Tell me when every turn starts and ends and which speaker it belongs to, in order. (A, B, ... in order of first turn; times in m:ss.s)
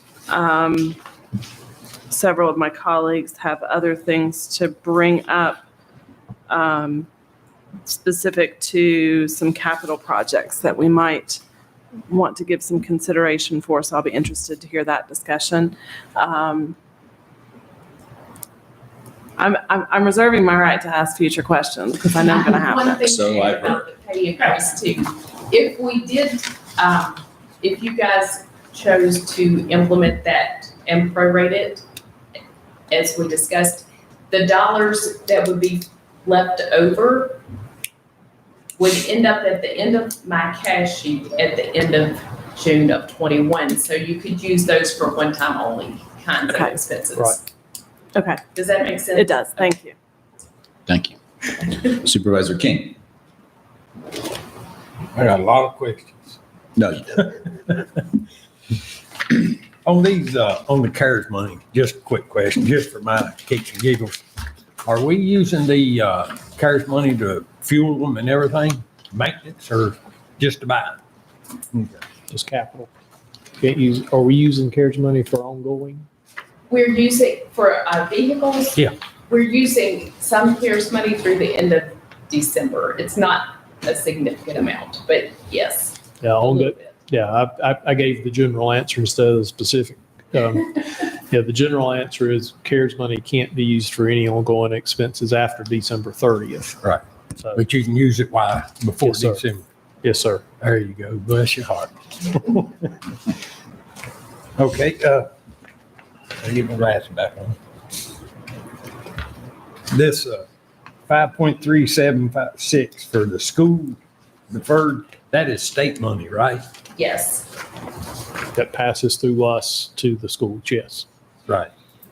0:00.3-0:01.0 A
0:02.1-0:05.6 A
0:06.5-0:07.1 A
0:07.9-0:11.4 A
0:12.1-0:16.8 A
0:19.4-0:23.1 A
0:22.2-0:31.8 B
0:23.0-0:23.8 C
0:32.9-0:37.4 B
0:38.8-0:47.4 B
0:46.5-0:46.8 A
0:48.2-0:48.4 A
0:48.5-0:49.7 B
0:49.1-0:50.0 A
0:50.9-0:53.0 C
0:55.1-0:56.4 D
0:56.8-0:57.4 C
0:57.7-0:58.0 D
0:59.8-1:04.2 D
1:04.8-1:11.0 D
1:11.7-1:12.0 D
1:12.3-1:12.9 E
1:13.6-1:16.0 E
1:16.7-1:26.9 B
1:26.2-1:36.8 E
1:37.4-1:37.6 E
1:37.6-1:39.6 D
1:39.0-1:39.4 E
1:40.0-1:40.4 E
1:40.6-1:43.0 D
1:44.6-1:45.3 D
1:46.4-1:47.6 D
1:49.9-1:50.4 D
1:51.1-1:54.0 D
1:54.5-1:56.6 D
1:57.0-1:57.5 B
1:58.5-2:01.1 E